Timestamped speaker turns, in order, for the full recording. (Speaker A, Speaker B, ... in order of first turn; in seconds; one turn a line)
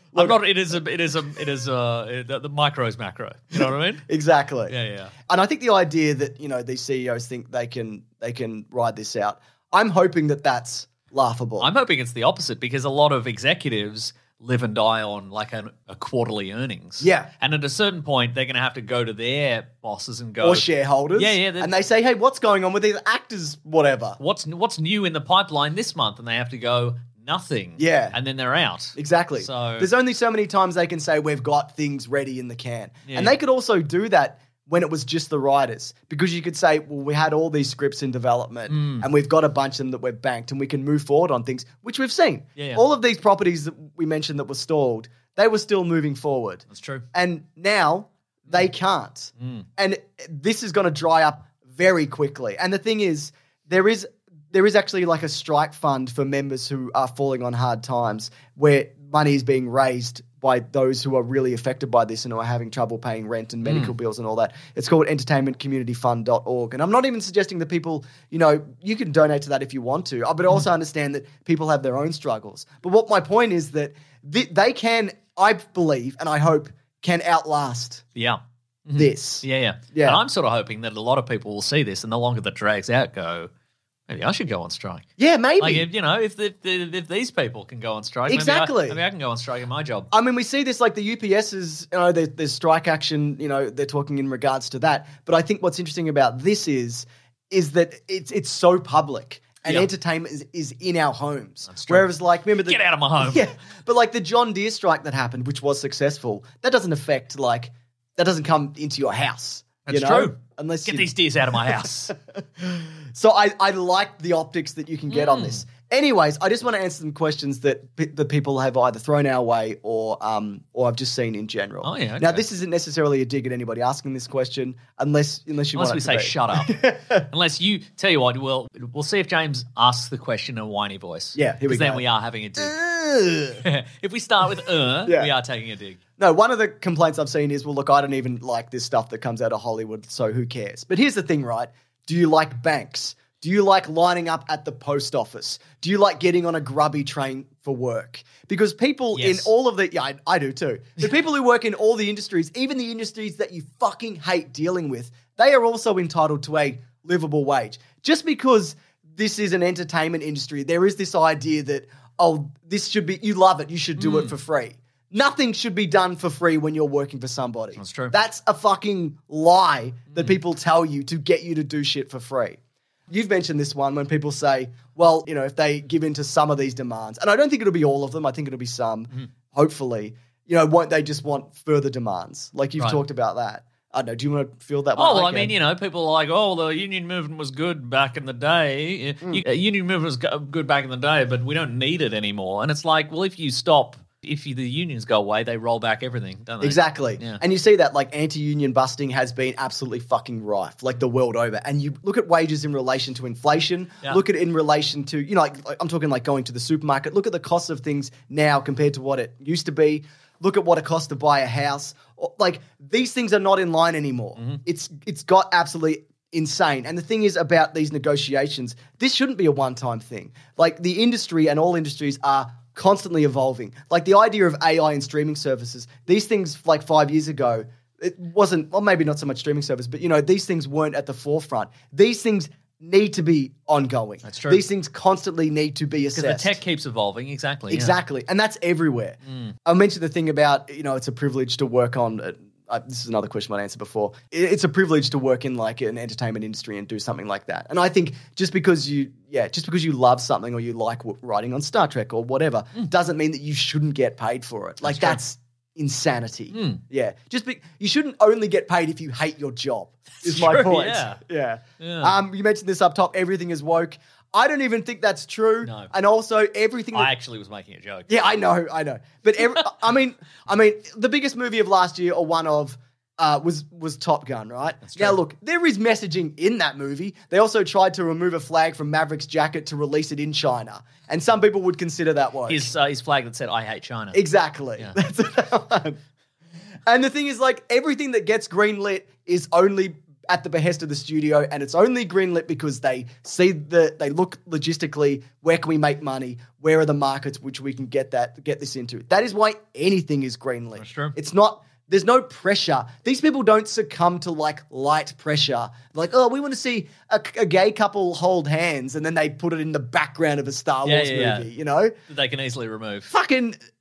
Speaker A: 0.1-4.1
Speaker B: 3.6-11.7
Speaker A: 4.7-5.1
Speaker A: 11.6-21.8
Speaker B: 17.0-17.3
Speaker B: 20.4-24.2
Speaker A: 24.2-29.9
Speaker B: 27.8-28.2
Speaker B: 28.9-78.0
Speaker A: 33.1-33.4
Speaker A: 38.7-39.1
Speaker A: 42.6-42.8
Speaker A: 46.7-47.0
Speaker A: 49.4-49.7
Speaker A: 63.6-63.9
Speaker A: 78.2-83.5
Speaker B: 79.0-80.2
Speaker A: 84.1-85.1
Speaker B: 85.2-85.9
Speaker A: 85.6-90.1
Speaker B: 88.3-89.0
Speaker B: 90.1-127.3
Speaker A: 99.7-99.9
Speaker A: 101.7-102.1
Speaker A: 102.6-103.5
Speaker A: 109.9-112.1
Speaker A: 115.1-115.6
Speaker A: 121.8-122.4
Speaker A: 125.8-132.8
Speaker B: 131.3-132.0
Speaker B: 132.6-133.6
Speaker A: 133.6-136.0
Speaker B: 135.1-135.3
Speaker B: 136.2-185.6
Speaker A: 149.2-149.5
Speaker A: 164.0-164.3
Speaker A: 167.8-168.1
Speaker A: 185.0-197.4
Speaker B: 196.6-236.6
Speaker A: 234.2-234.6
Speaker A: 236.2-238.0
Speaker B: 237.7-267.1
Speaker A: 239.3-239.6
Speaker A: 254.8-255.2
Speaker A: 256.5-256.8
Speaker A: 260.2-261.2
Speaker A: 261.8-262.1
Speaker A: 265.6-265.9
Speaker A: 266.9-268.1
Speaker B: 268.1-282.7
Speaker A: 274.8-275.2
Speaker A: 282.5-284.2
Speaker B: 284.1-286.0
Speaker B: 286.9-311.9
Speaker A: 300.8-301.2
Speaker A: 310.9-311.5
Speaker A: 312.1-313.1
Speaker B: 313.1-313.6